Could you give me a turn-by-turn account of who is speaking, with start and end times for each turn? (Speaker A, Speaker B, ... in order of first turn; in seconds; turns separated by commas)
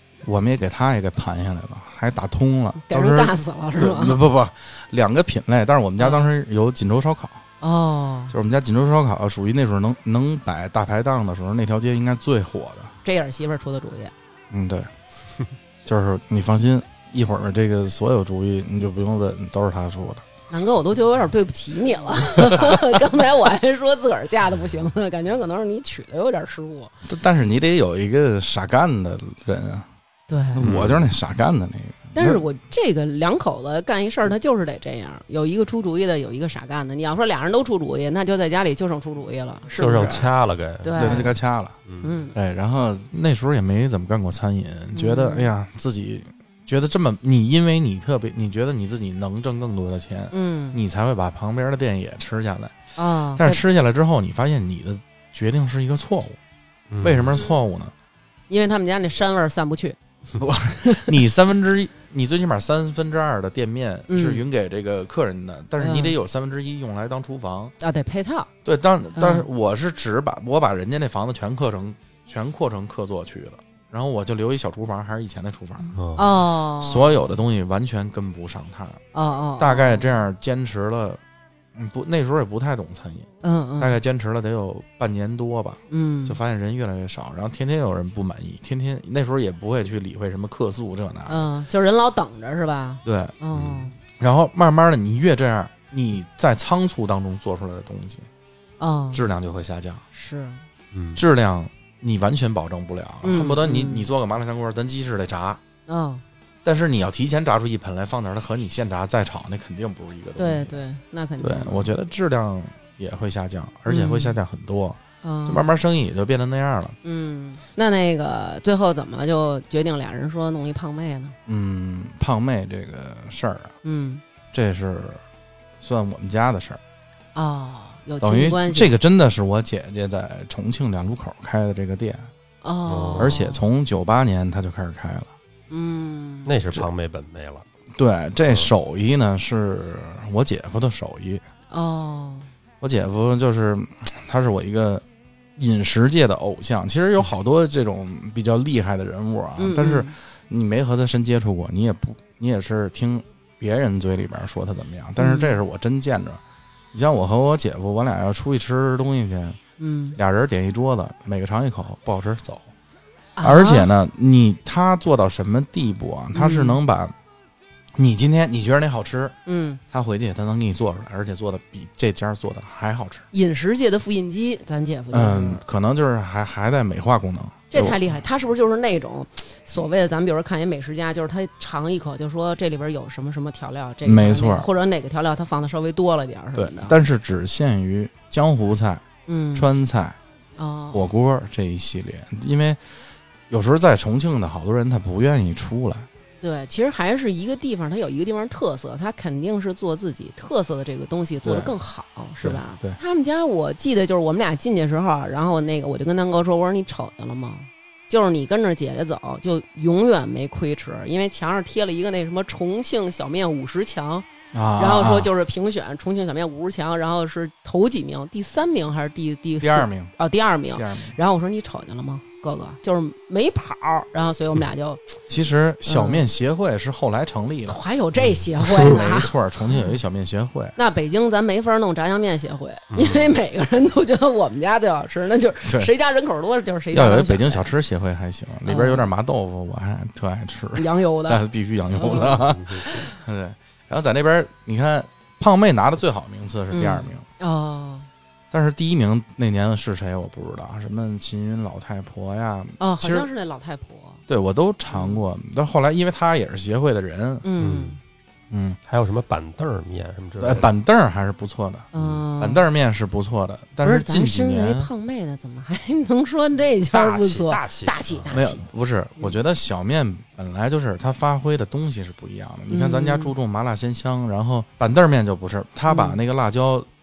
Speaker A: 0.2-7.4, Speaker B: 2.8-4.2, Speaker B: 6.0-6.3, Speaker B: 7.6-8.3, Speaker A: 8.3-12.9, Speaker B: 13.0-14.1, Speaker A: 14.5-14.9, Speaker A: 15.9-20.2, Speaker B: 20.5-26.9, Speaker A: 27.1-29.9, Speaker B: 30.3-30.6, Speaker A: 30.6-32.4, Speaker C: 30.6-31.1, Speaker B: 32.1-40.3, Speaker C: 39.8-41.3, Speaker B: 40.8-41.4, Speaker A: 41.0-41.8, Speaker B: 42.0-42.4, Speaker A: 42.4-52.8, Speaker B: 44.9-45.5, Speaker B: 50.3-50.8, Speaker B: 53.0-53.6, Speaker A: 53.3-56.4, Speaker C: 56.9-57.4, Speaker A: 57.0-57.9, Speaker B: 58.5-61.2, Speaker A: 60.4-67.7, Speaker B: 64.1-64.4, Speaker B: 65.8-66.2, Speaker B: 67.8-68.5, Speaker A: 68.7-75.9, Speaker B: 69.2-69.5, Speaker B: 75.9-77.3, Speaker C: 76.0-76.2, Speaker A: 76.7-79.0, Speaker B: 79.1-80.2, Speaker A: 79.6-81.2, Speaker A: 81.8-83.3, Speaker B: 83.4-84.0, Speaker A: 83.8-91.5, Speaker B: 85.9-86.4, Speaker B: 91.3-94.0, Speaker A: 93.0-93.3, Speaker C: 93.5-93.9, Speaker A: 94.2-98.3, Speaker B: 98.8-99.2, Speaker A: 99.1-100.0, Speaker B: 100.1-100.6, Speaker C: 100.9-101.2, Speaker A: 101.2-105.6, Speaker B: 103.2-104.1, Speaker B: 105.9-106.2, Speaker A: 106.7-110.8, Speaker B: 110.4-111.9, Speaker A: 111.4-117.0, Speaker B: 113.9-114.4, Speaker B: 115.2-115.7, Speaker B: 117.0-121.3, Speaker A: 121.5-123.7, Speaker B: 123.8-124.2, Speaker A: 124.5-125.2, Speaker A: 125.8-126.8, Speaker B: 127.3-128.9, Speaker A: 128.2-132.3, Speaker B: 132.6-133.6, Speaker C: 132.9-133.4, Speaker A: 133.2-135.3, Speaker B: 135.7-136.5, Speaker C: 136.5-137.6, Speaker A: 138.0-141.4, Speaker B: 141.7-142.5, Speaker A: 142.8-145.0, Speaker A: 145.6-156.4, Speaker B: 149.6-150.1, Speaker B: 155.2-155.6, Speaker A: 156.9-159.6, Speaker B: 159.8-160.2, Speaker A: 160.2-162.7, Speaker B: 163.4-163.9, Speaker A: 163.4-167.1, Speaker B: 166.3-166.8, Speaker A: 168.0-169.4, Speaker B: 169.5-169.8, Speaker A: 169.9-173.3, Speaker B: 173.3-175.6, Speaker A: 175.1-178.0, Speaker B: 177.7-187.0, Speaker A: 184.0-184.7, Speaker A: 186.6-189.0, Speaker B: 189.3-189.7, Speaker A: 189.6-190.2, Speaker B: 190.6-191.1, Speaker A: 190.9-192.8, Speaker A: 193.5-196.1, Speaker B: 196.4-225.2, Speaker A: 201.4-201.7, Speaker A: 202.4-203.0, Speaker A: 214.5-215.3, Speaker A: 219.6-220.1, Speaker A: 220.8-221.2, Speaker A: 225.3-227.8, Speaker B: 225.9-226.2, Speaker B: 227.7-229.3, Speaker A: 228.6-230.8, Speaker B: 230.8-237.7, Speaker C: 232.9-233.3, Speaker A: 236.9-247.2, Speaker B: 238.7-239.1, Speaker B: 240.8-241.4, Speaker B: 241.9-243.1, Speaker C: 242.3-242.8, Speaker B: 246.7-248.1, Speaker A: 248.5-253.3, Speaker B: 252.8-254.2, Speaker A: 254.3-257.4, Speaker B: 254.9-255.2, Speaker B: 257.4-258.0, Speaker C: 257.6-258.0, Speaker A: 258.5-258.8, Speaker C: 258.9-260.7, Speaker A: 260.4-264.9, Speaker B: 261.9-262.7, Speaker C: 262.0-262.2, Speaker B: 263.8-268.6, Speaker C: 266.9-268.2, Speaker A: 268.3-276.9, Speaker B: 272.7-273.3, Speaker B: 275.9-276.2